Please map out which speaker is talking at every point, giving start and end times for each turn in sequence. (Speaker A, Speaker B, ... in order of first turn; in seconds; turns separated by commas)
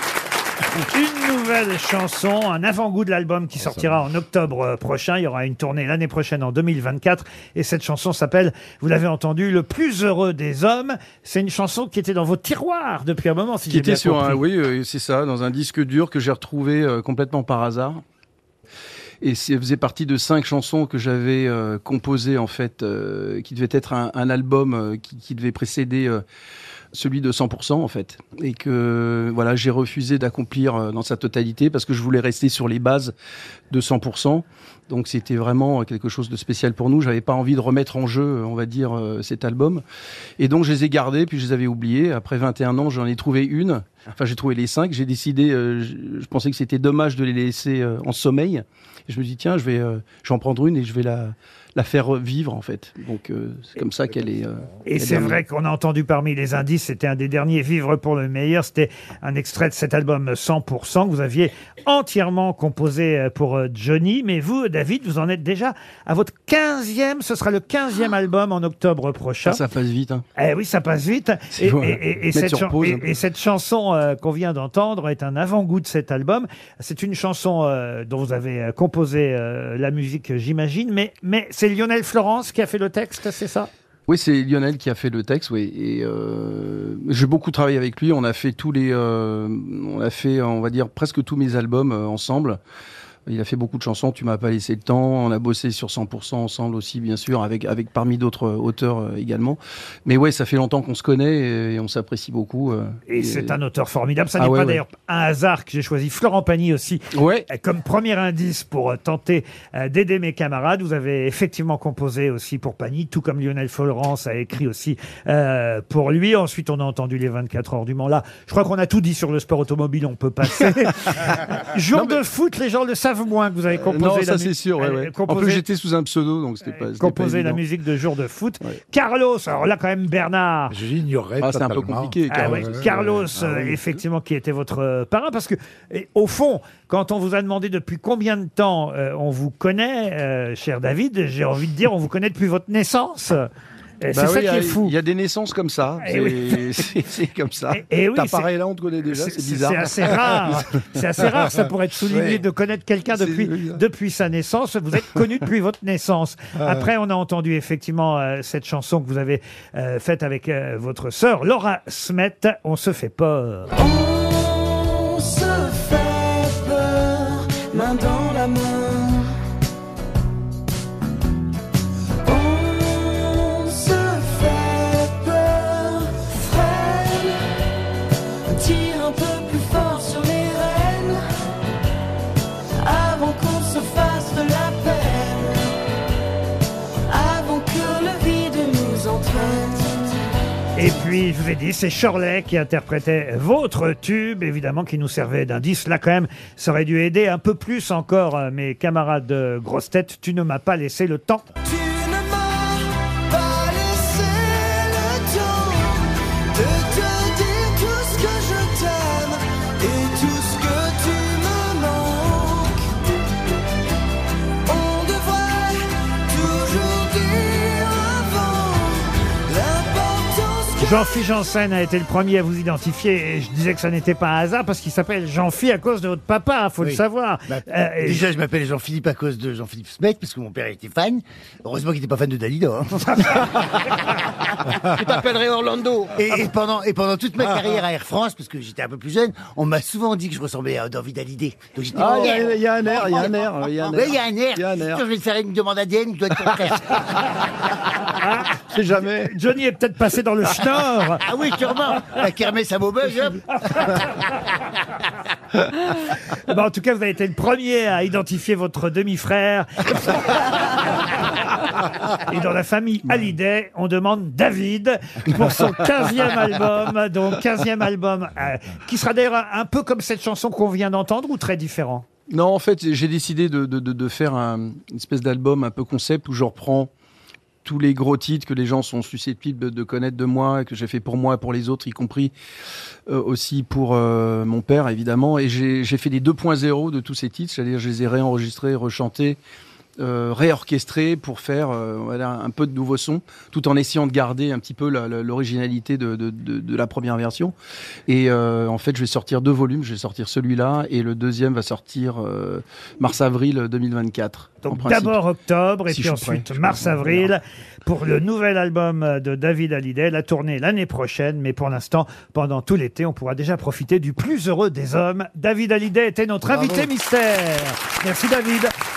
Speaker A: 0.9-14.4, Speaker B: 3.6-3.9, Speaker C: 13.7-18.0, Speaker C: 19.2-26.2, Speaker C: 26.9-33.1, Speaker C: 33.7-39.8, Speaker C: 40.4-55.4, Speaker A: 54.8-69.6, Speaker C: 69.4-70.2, Speaker A: 70.3-83.7, Speaker C: 71.5-73.1, Speaker C: 84.1-92.6, Speaker C: 93.3-103.6, Speaker A: 103.1-125.7, Speaker C: 104.4-104.8, Speaker C: 107.1-107.5, Speaker C: 121.9-122.2, Speaker C: 123.7-127.6, Speaker A: 126.6-130.8, Speaker B: 130.7-133.8, Speaker C: 131.4-134.0, Speaker A: 132.3-143.5, Speaker A: 144.0-144.9, Speaker C: 144.1-150.6, Speaker A: 146.0-146.8, Speaker A: 147.7-148.5, Speaker A: 149.1-163.7, Speaker C: 152.1-152.4, Speaker C: 153.1-153.8, Speaker D: 163.7-169.3, Speaker D: 172.2-177.5, Speaker D: 178.5-181.3, Speaker D: 182.8-185.7, Speaker D: 187.1-190.3, Speaker A: 190.8-201.4, Speaker D: 201.7-212.9, Speaker D: 214.7-221.2, Speaker A: 220.8-228.2, Speaker E: 226.8-233.4, Speaker F: 234.9-236.2, Speaker E: 236.1-247.0, Speaker C: 241.9-245.0, Speaker F: 242.0-243.2, Speaker A: 248.1-251.2, Speaker C: 248.7-249.3, Speaker E: 251.2-254.0, Speaker A: 253.7-254.0, Speaker A: 256.5-260.5, Speaker A: 262.3-272.1, Speaker C: 272.3-276.9, Speaker C: 277.6-282.3, Speaker C: 283.1-289.4, Speaker C: 290.0-297.5, Speaker C: 298.1-305.2, Speaker A: 304.6-318.7, Speaker C: 305.9-307.3